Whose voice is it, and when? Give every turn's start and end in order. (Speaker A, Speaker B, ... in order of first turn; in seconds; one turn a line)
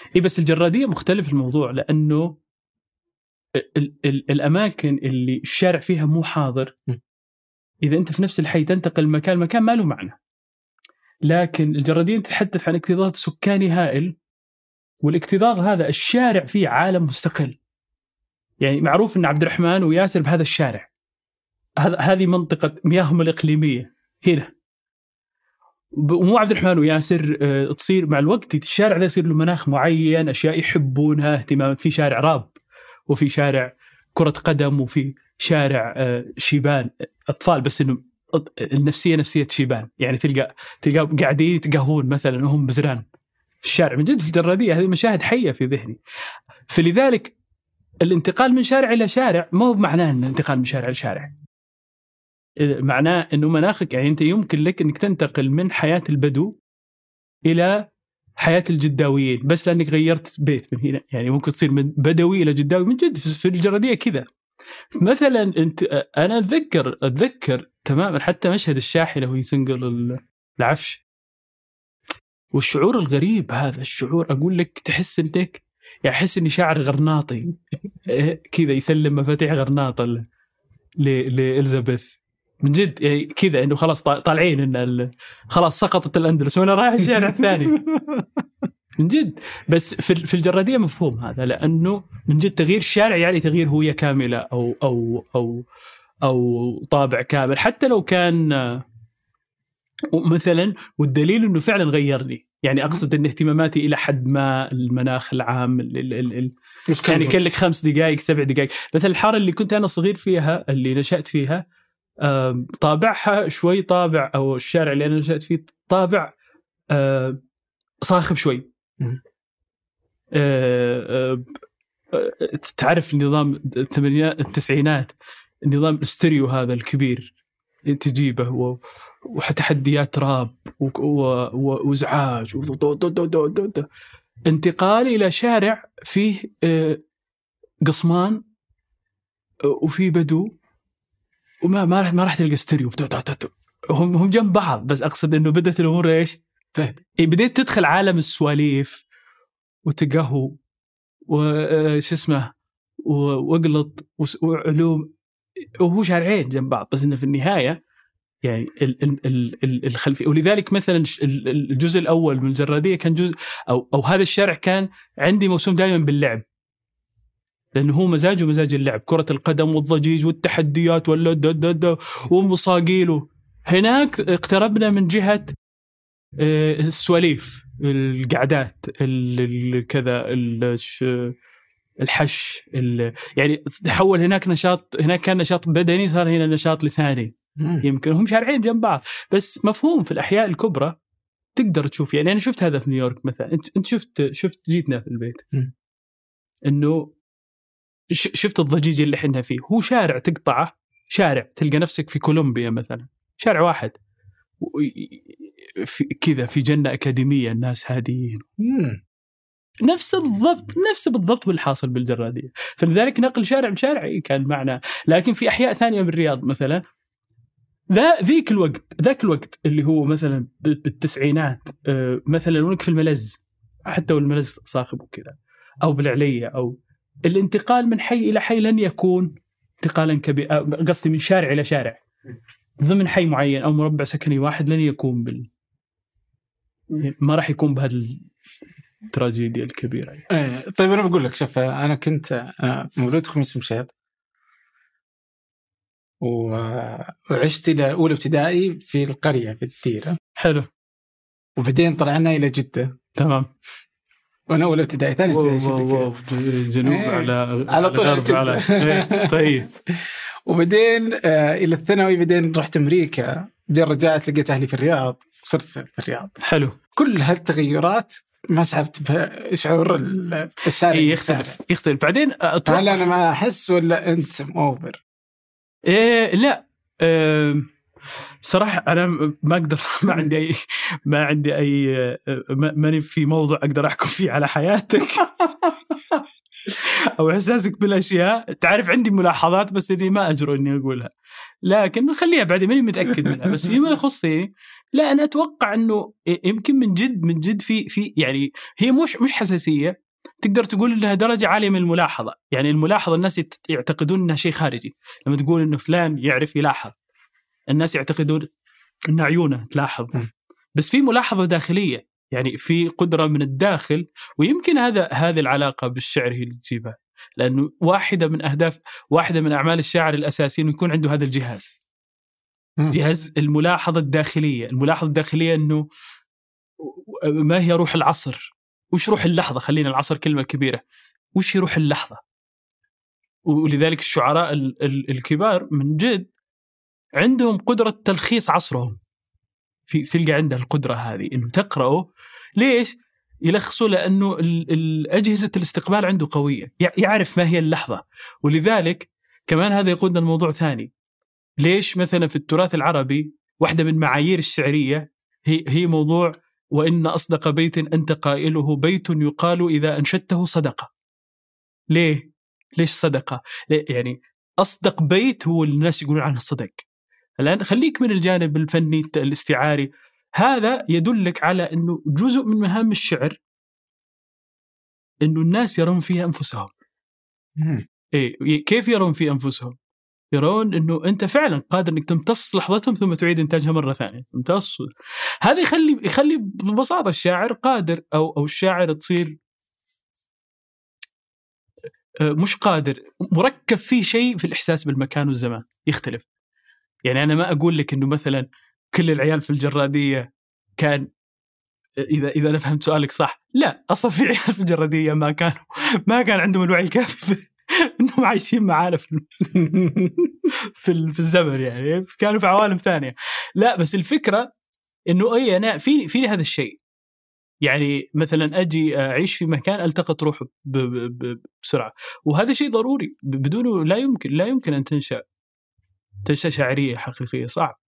Speaker A: 0.1-2.4
Speaker A: 3.6-6.7
Speaker A: 7.8-10.2
Speaker A: 11.3-14.2
Speaker A: 15.0-17.6
Speaker A: 18.6-20.9
Speaker A: 21.8-24.5
Speaker A: 26.0-32.5
Speaker A: 33.1-43.0
Speaker A: 43.6-46.0
Speaker A: 46.7-47.4
Speaker A: 48.0-51.3
Speaker A: 52.6-56.5
Speaker A: 57.5-57.8
Speaker A: 58.4-64.3
Speaker A: 65.0-71.0
Speaker A: 72.5-77.5
Speaker A: 78.1-80.2
Speaker A: 81.0-87.8
Speaker B: 87.3-88.4
Speaker A: 89.0-95.6
Speaker A: 96.2-98.8
Speaker A: 100.1-106.5
Speaker B: 106.9-107.4
Speaker A: 107.0-111.6
Speaker A: 112.2-116.3
Speaker A: 116.9-117.4
Speaker A: 118.0-118.7
Speaker A: 120.4-121.5
Speaker A: 122.1-125.1
Speaker A: 125.7-127.3
Speaker A: 127.9-133.9
Speaker A: 134.5-137.0
Speaker A: 137.9-138.4
Speaker A: 139.7-140.5
Speaker A: 141.6-146.4
Speaker A: 147.2-149.0
Speaker A: 149.9-150.6
Speaker A: 151.3-152.5
Speaker A: 153.1-155.1
Speaker A: 155.8-157.8
Speaker A: 158.4-166.4
Speaker A: 167.8-175.5
Speaker A: 176.4-181.3
Speaker A: 182.0-191.0
Speaker B: 187.6-187.8
Speaker A: 191.6-195.4
Speaker A: 196.7-197.1
Speaker A: 198.1-203.9
Speaker A: 204.6-208.4
Speaker B: 208.6-209.0
Speaker A: 209.8-216.8
Speaker A: 217.9-226.8
Speaker A: 227.3-232.0
Speaker A: 232.8-235.5
Speaker A: 236.9-238.2
Speaker A: 239.1-240.3
Speaker B: 240.3-243.9
Speaker B: 246.2-250.2
Speaker A: 250.4-250.7
Speaker B: 251.6-252.9
Speaker A: 253.2-253.5
Speaker B: 254.5-256.2
Speaker A: 255.3-259.7
Speaker B: 256.8-266.4
Speaker A: 266.4-266.8
Speaker B: 266.9-271.6
Speaker A: 270.7-273.1
Speaker B: 272.7-275.0
Speaker A: 275.9-277.7
Speaker A: 278.4-285.4
Speaker A: 286.8-291.1
Speaker A: 291.6-306.9
Speaker B: 293.1-293.6
Speaker A: 307.7-308.5
Speaker A: 309.1-310.2
Speaker A: 310.8-321.8
Speaker A: 322.9-325.8
Speaker A: 326.8-330.8
Speaker A: 331.4-332.2
Speaker A: 333.5-336.3
Speaker A: 337.2-339.0
Speaker A: 339.9-342.0
Speaker A: 342.6-342.9
Speaker A: 343.5-350.9
Speaker A: 351.6-360.9
Speaker A: 361.9-362.2
Speaker A: 362.8-366.9
Speaker A: 367.4-373.4
Speaker A: 375.2-376.7
Speaker B: 377.6-377.9
Speaker A: 378.1-379.8
Speaker A: 380.3-384.9
Speaker A: 385.4-389.4
Speaker A: 392.3-396.3
Speaker A: 397.1-400.3
Speaker A: 400.8-401.1
Speaker A: 402.1-409.2
Speaker B: 409.5-410.5
Speaker A: 410.7-414.5
Speaker A: 415.1-416.8
Speaker A: 417.7-425.2
Speaker A: 426.3-427.8